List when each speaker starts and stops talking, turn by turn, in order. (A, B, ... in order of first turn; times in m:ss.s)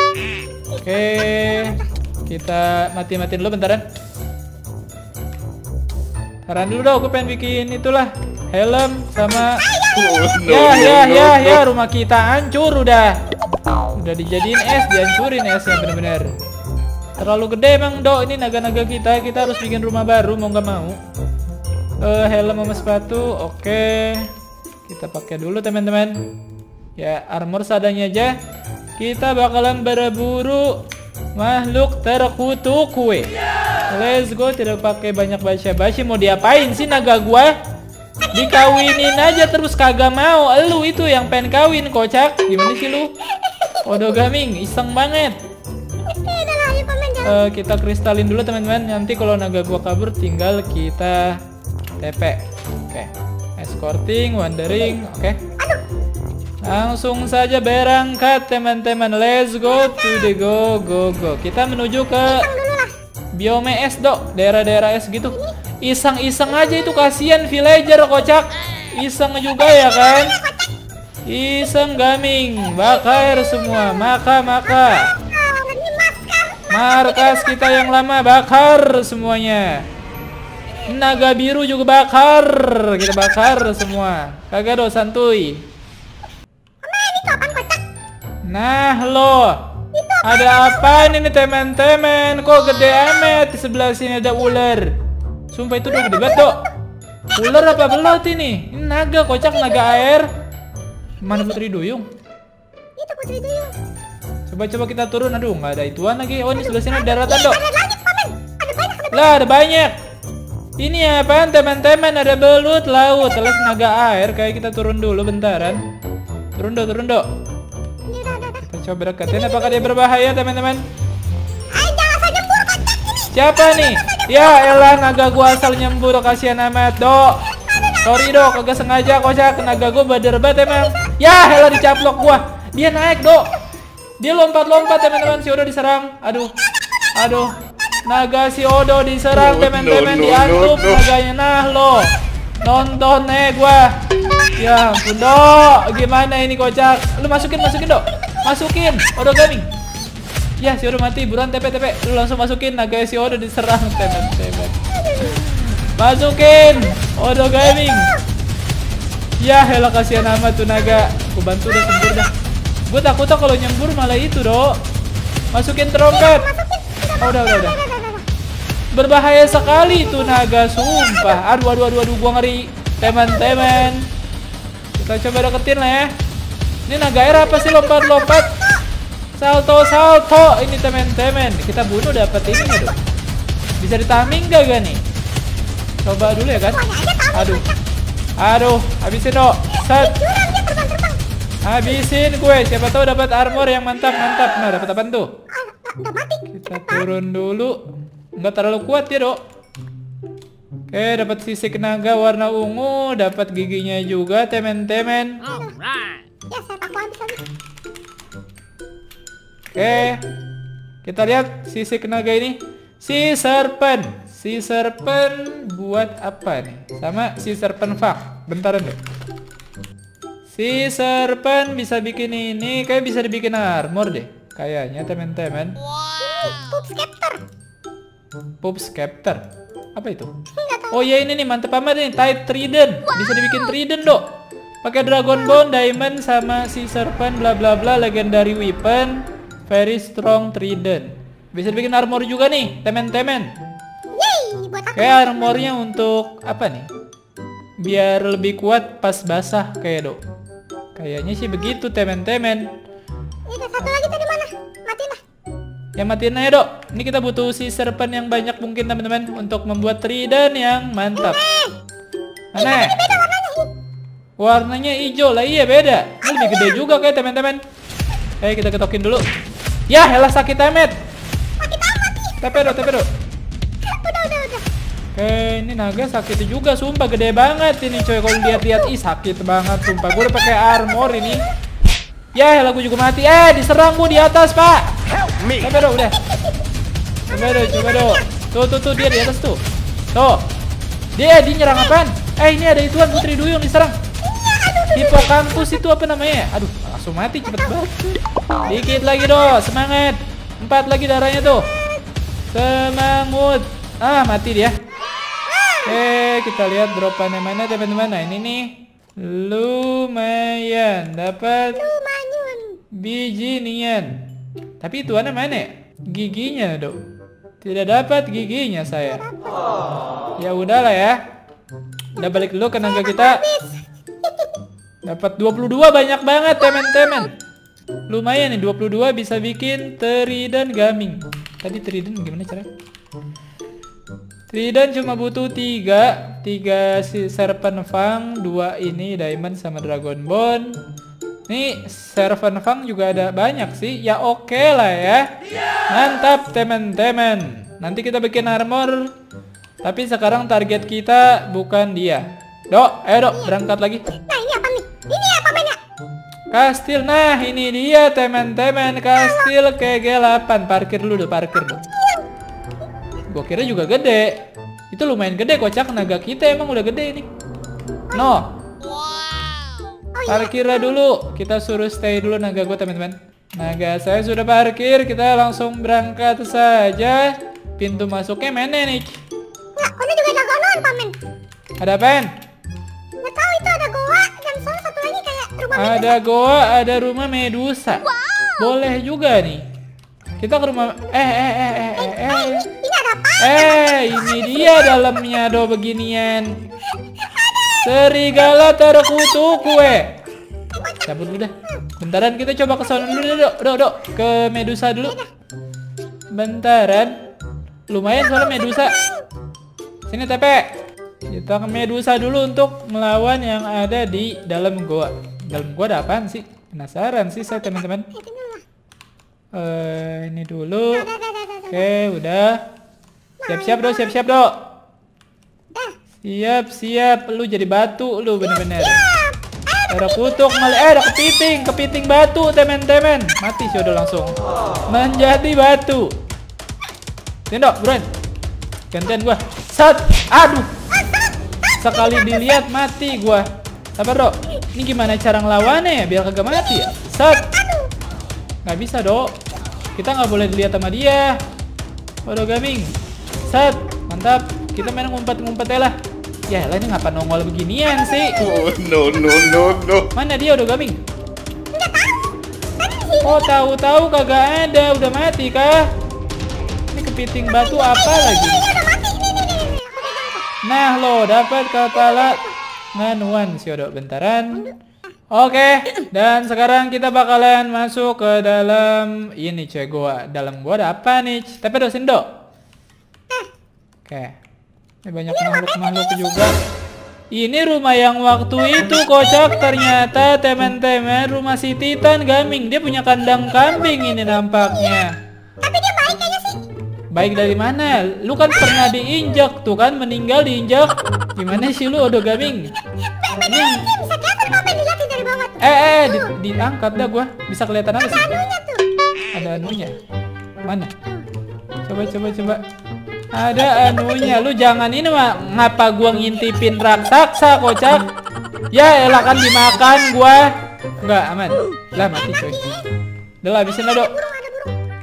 0:00.7-0:01.7 A
0:00.8-0:03.8 B
0:06.4-0:09.6 B
0:09.6-0:10.0 A
0:09.9-0:11.6 C
0:10.5-0:13.2 B
0:14.0-0:16.3 B
0:17.2-0:21.0 B
0:22.0-0:24.3 B
0:24.9-0:26.2 B
0:27.0-0:28.3 B
0:29.0-0:30.8 B
0:31.4-0:33.3 B
0:33.9-0:37.5 B
0:38.3-0:38.9 A
0:38.3-0:43.1 B
0:43.5-0:44.2 A
0:43.8-0:45.4 B
0:46.0-0:47.4 A
0:47.2-0:51.4 B
0:52.0-0:55.4 B
0:56.6-1:02.5 B
1:02.2-1:02.9 A
1:03.4-1:10.3 B
1:06.5-1:07.1 A
1:09.8-1:10.7 A
1:11.3-1:15.1 B
1:13.0-1:13.9 A
1:15.2-1:17.5 A
1:16.7-1:19.8 B
1:20.9-1:25.6 B
1:26.8-1:27.8 A
1:28.4-1:29.6 B
1:29.9-1:31.1 A
1:30.2-1:34.9 B
1:35.5-1:36.6 B
1:37.3-1:40.3 B
1:41.2-1:42.0 B
1:43.0-1:43.7 A
1:44.5-1:47.6 B
1:46.7-1:49.3 A
1:49.1-1:49.9 B
1:50.8-1:55.8 B
1:56.6-1:57.2 B
1:58.1-1:58.6 A
1:58.6-2:00.8 B
2:01.7-2:03.2 A
2:03.3-2:07.4 B
2:08.0-2:13.5 B
2:14.2-2:16.5 B
2:17.2-2:17.5 B
2:18.1-2:24.0 B
2:19.3-2:21.0 C
2:24.6-2:29.6 B
2:30.6-2:38.1 B
2:35.0-2:35.4 A
2:39.4-2:42.3 B
2:42.9-2:44.8 B
2:45.5-2:46.5 B
2:46.2-2:48.2 A
2:47.2-2:47.8 B
2:48.9-2:54.1 B
2:55.0-2:56.1 B
2:56.9-2:58.5 B
2:57.5-2:58.6 A
2:59.4-3:02.9 B
3:03.8-3:05.0 B
3:06.0-3:07.6 B
3:06.5-3:07.7 A
3:08.4-3:10.2 B
3:09.8-3:11.2 A
3:11.6-3:15.3 B
3:15.5-3:16.5 A
3:16.5-3:17.8 B
3:18.4-3:19.4 B
3:20.9-3:25.5 B
3:25.5-3:25.8 A
3:26.5-3:27.5 A
3:29.7-3:30.2 B
3:31.0-3:39.0 B
3:40.5-3:45.8 B
3:46.0-3:47.4 A
3:48.6-3:49.4 B
3:50.0-3:50.3 B
3:50.6-3:51.2 A
3:50.9-3:54.2 B
3:54.8-4:03.5 B
4:04.1-4:05.6 A
4:05.0-4:06.9 B
4:07.8-4:10.2 B
4:11.0-4:12.7 B
4:13.5-4:15.2 A
4:16.0-4:21.4 B
4:21.2-4:21.7 A
4:22.5-4:23.0 B
4:22.6-4:23.7 A
4:24.4-4:27.6 B
4:28.4-4:29.2 B
4:29.9-4:30.9 B
4:31.6-4:32.3 A
4:32.4-4:33.1 B
4:33.8-4:34.6 A
4:35.1-4:41.4 B
4:42.3-4:44.9 B
4:45.6-4:46.2 B
4:47.3-4:49.6 B
4:47.3-4:48.2 A
4:50.1-4:50.4 B
4:51.2-4:54.0 B
4:54.3-4:55.5 A
4:54.9-5:01.7 B
5:02.5-5:04.7 B
5:05.5-5:05.9 A
5:05.8-5:11.8 B
5:11.7-5:12.8 A
5:12.9-5:14.2 B
5:14.8-5:17.0 B
5:17.6-5:19.2 B
5:20.4-5:21.2 B
5:22.2-5:23.4 B
5:22.8-5:24.5 A
5:25.0-5:27.3 B
5:28.1-5:32.7 B
5:34.5-5:40.8 B
5:41.5-5:45.2 B
5:45.9-5:49.1 B
5:49.8-5:54.0 B
5:54.3-5:55.8 A
5:56.5-6:01.8 B
6:03.3-6:04.4 B
6:04.9-6:07.3 B
6:08.1-6:08.5 B
6:10.1-6:10.8 A
6:10.3-6:19.2 B
6:19.8-6:21.1 A
6:21.8-6:22.3 B
6:23.2-6:26.1 A
6:25.7-6:28.0 B
6:28.6-6:29.6 B
6:30.4-6:32.7 B
6:32.6-6:34.7 A
6:33.4-6:36.5 B
6:37.8-6:40.1 B
6:41.0-6:45.2 B
6:46.3-6:47.1 B
6:47.9-6:48.9 B
6:50.1-6:50.7 B
6:51.3-6:58.0 B
6:58.1-6:58.6 A
6:59.5-7:01.1 B
7:01.0-7:01.8 A
7:01.7-7:02.6 B
7:03.4-7:04.5 B
7:03.5-7:03.9 A
7:06.2-7:09.0 B
7:09.9-7:14.3 B
7:14.9-7:16.1 B
7:17.5-7:18.0 B
7:18.9-7:20.7 B
7:21.8-7:27.5 B
7:28.6-7:29.3 B
7:30.0-7:31.4 B
7:32.2-7:32.9 B
7:33.5-7:35.9 B
7:36.5-7:38.4 B
7:38.4-7:40.1 C
7:40.1-7:41.0 B
7:41.7-7:42.2 A
7:42.8-7:43.5 A
7:43.2-7:45.9 B
7:46.9-7:48.6 B
7:48.9-7:50.5 A
7:50.6-7:52.4 B
7:52.0-7:52.5 A
7:53.0-7:54.7 B
7:55.3-8:02.3 B
8:04.1-8:04.4 B
8:05.0-8:06.5 B
8:07.3-8:15.1 B
8:15.6-8:16.6 A
8:17.1-8:22.7 B
8:23.2-8:26.2 A
8:23.5-8:23.8 B
8:25.6-8:28.4 B
8:28.2-8:29.8 A
8:29.3-8:30.0 B
8:30.6-8:30.9 B
8:31.8-8:32.6 B
8:33.3-8:38.0 B
8:38.7-8:42.7 B
8:43.4-8:44.2 B
8:43.9-8:44.7 A